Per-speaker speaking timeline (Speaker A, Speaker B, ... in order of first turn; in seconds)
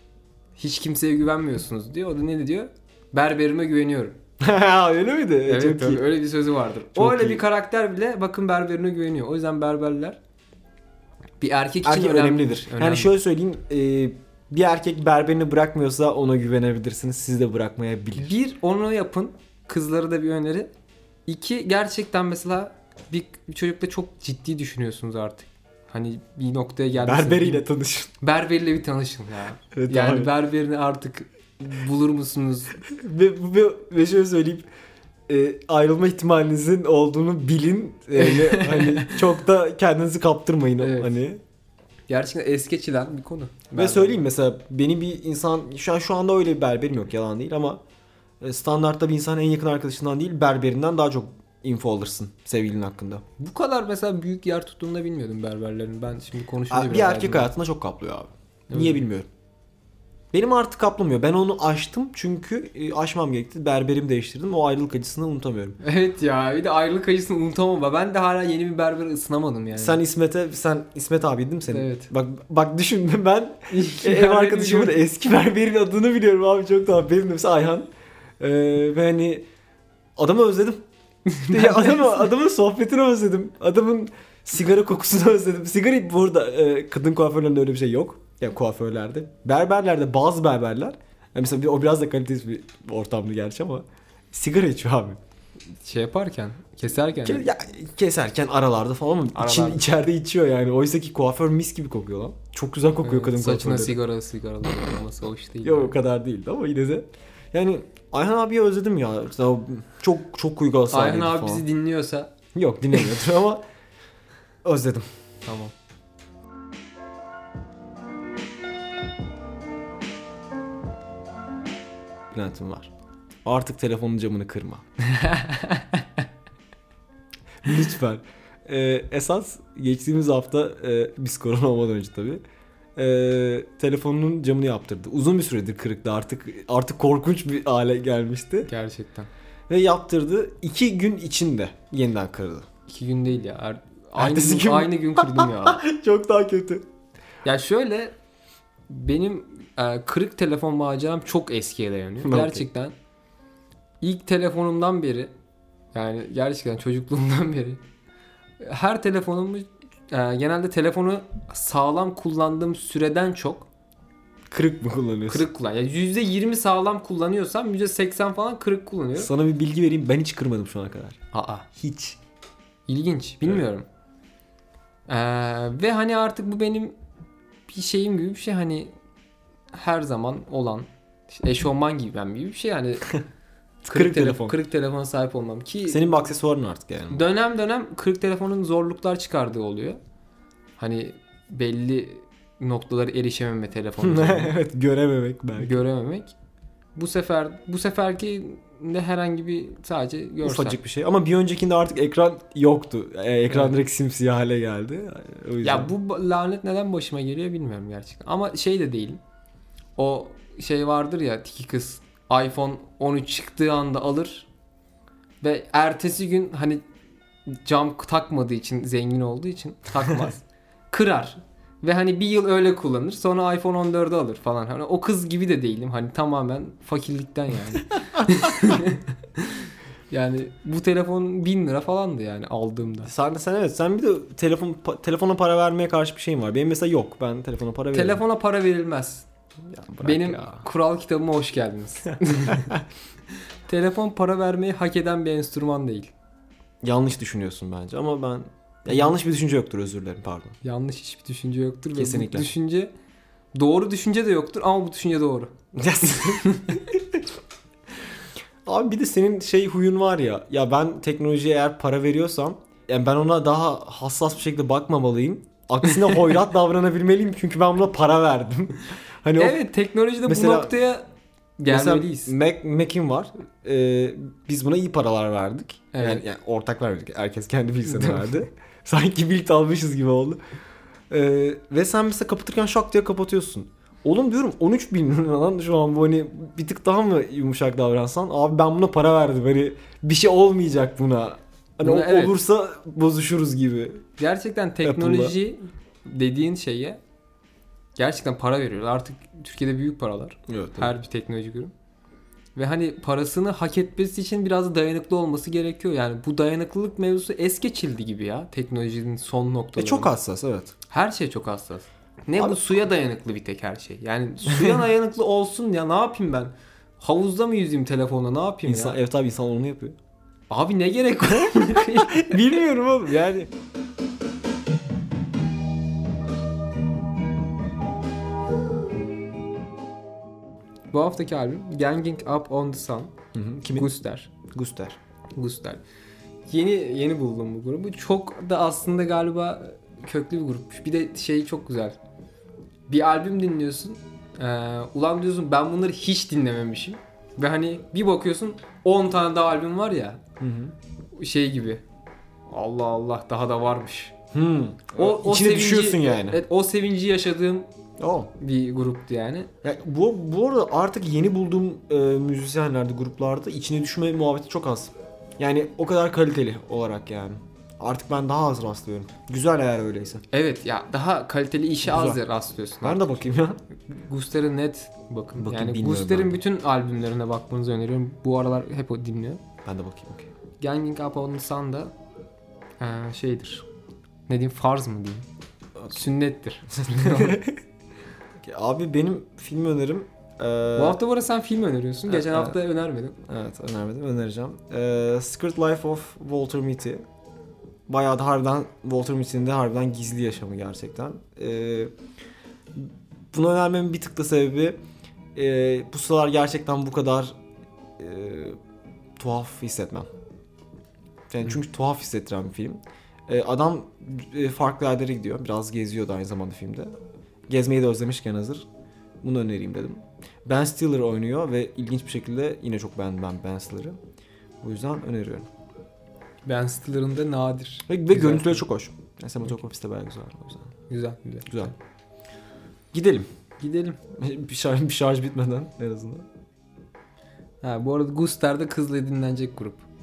Speaker A: 0.6-4.2, 5.5-10.2, 11.4-13.1, 18.2-20.7, 21.3-27.6, 28.2-32.8, 38.2-39.2, 40.8-41.2, 42.1-44.2, 53.4-57.5, 58.7-59.0, 65.8-70.0, 71.7-72.1, 73.7-75.0, 81.3-82.3, 95.8-97.5, 99.3-99.8, 103.0-105.9, 110.9-112.3, 115.4-115.7, 125.0-126.2, 138.7-139.3, 142.9-145.8, 147.4-148.1, 148.9-152.9, 154.0-155.3, 155.9-157.8, 158.6-163.7, 165.3-169.3, 171.3-171.7, 172.9-173.8, 175.1-176.9, 177.7-178.9, 179.7-183.2, 183.9-186.1, 187.1-190.0, 190.8-194.5, 195.6-196.3, 196.9-200.8, 203.5-203.7, 205.6-209.2, 210.0-214.5, 215.4-216.8, 217.5-233.1, 237.9-239.3, 240.0-242.8, 243.7-246.1, 250.6-252.9, 253.5-256.9, 269.4-271.1, 271.6-272.3, 275.9-276.2, 277.8-278.3, 291.8-292.4, 294.2-297.0, 297.9-301.7, 302.5-310.1, 310.9-319.0, 320.5-322.4, 330.9-333.1, 333.8-334.3, 335.4-335.8, 336.5-342.0, 342.9-350.2, 351.1-351.8, 352.5-354.1, 355.0-357.7, 358.4-359.5, 370.3-379.4, 380.6-381.9, 382.8-383.6, 384.3-385.2, 385.9-387.4, 390.8-393.1, 426.4-428.6, 430.9-431.7, 433.6-434.0, 437.6-439.8
Speaker B: 4.4-6.0, 6.9-7.4, 11.8-18.3, 27.0-28.1, 29.7-30.3, 32.8-34.7, 35.3-41.4, 43.7-47.8, 48.4-53.2, 56.7-59.3, 60.3-65.8, 69.7-79.4, 80.2-80.8, 81.4-95.2, 97.2-104.0, 105.6-111.6, 112.5-113.6, 114.6-115.0, 122.3-122.9, 123.4-124.8, 127.6-132.4, 132.9-138.7, 139.7-142.6, 144.2-146.8, 152.2-152.7, 164.5-165.5, 169.2-171.2, 171.7-172.2, 183.8-184.6, 185.9-187.2, 194.0-195.8, 200.4-205.9, 233.0-238.2, 239.7-240.6, 246.8-250.6, 251.9-252.5, 255.7-257.2, 258.6-269.6, 270.2-270.7, 271.7-280.4, 281.1-294.0, 294.8-295.3, 300.5-300.9, 309.8-310.7, 312.4-312.7, 314.5-314.8, 318.6-319.9, 321.4-323.5, 333.3-333.9, 334.5-335.0, 350.4-350.7, 354.3-356.4, 358.0-358.3, 359.6-370.2, 371.8-372.2, 372.8-373.6, 375.4-376.4, 379.6-380.3, 386.8-387.6, 388.4-391.0, 392.1-392.6, 393.2-397.0, 397.9-401.9, 402.7-404.8, 405.3-407.4, 408.0-408.6, 409.2-410.1, 411.3-416.9, 417.5-418.6, 419.2-424.0, 424.6-425.5, 427.9-430.7, 431.5-431.7, 432.9-433.3, 434.1-436.3